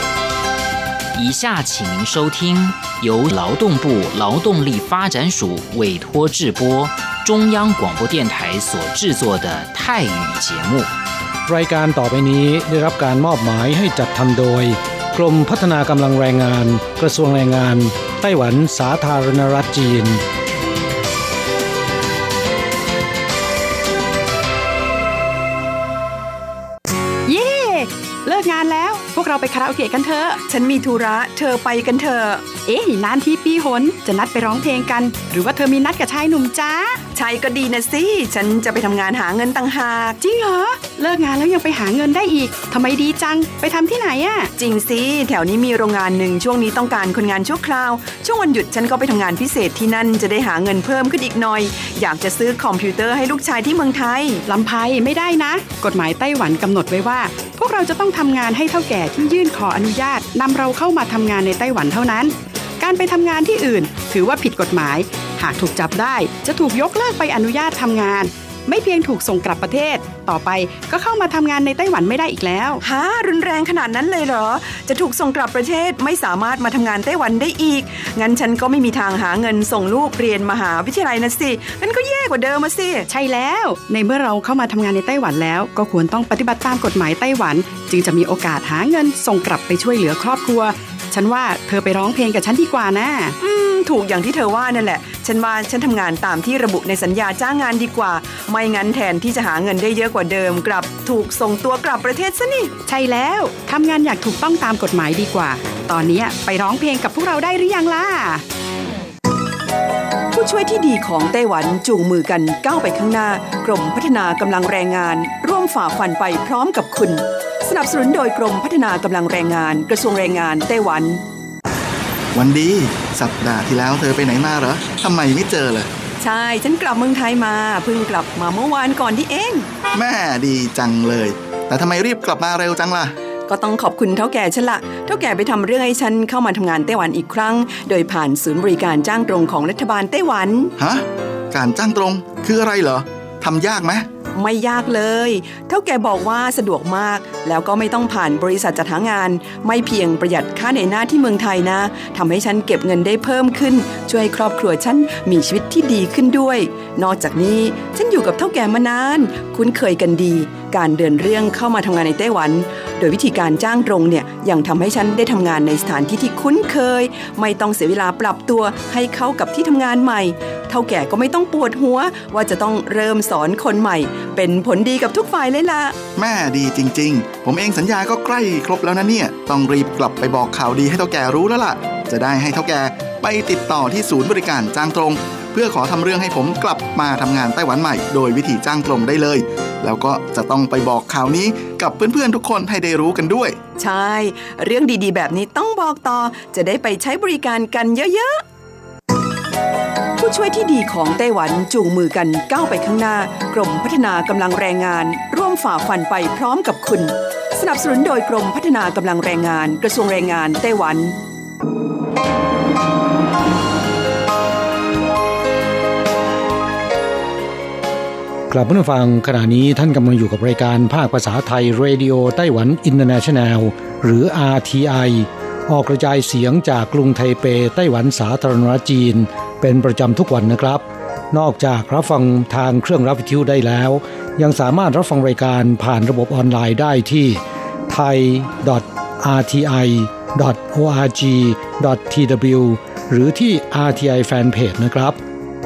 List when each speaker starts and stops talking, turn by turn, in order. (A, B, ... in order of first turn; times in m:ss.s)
0:01.1-0:10.9 A
0:11.5-0:20.2 B
0:27.3-0:30.4 C
0:30.5-0:32.5 D
0:32.6-0:37.0 C
0:37.1-0:40.2 D
0:40.2-0:44.5 C
0:44.6-0:54.4 D
0:54.5-1:12.8 C
1:12.8-1:23.1 D
1:23.1-1:33.4 C
1:33.4-1:42.8 D
1:42.9-1:48.4 C
1:50.3-2:01.2 D
2:02.3-2:05.9 E
2:06.2-2:09.7 D
2:09.9-2:13.2 E
2:13.5-2:20.7 D
2:20.8-2:24.1 E
2:24.4-2:56.0 D
2:56.2-3:13.6 E
3:13.8-3:18.4 D
3:20.2-3:31.2 D
3:38.5-4:05.2 B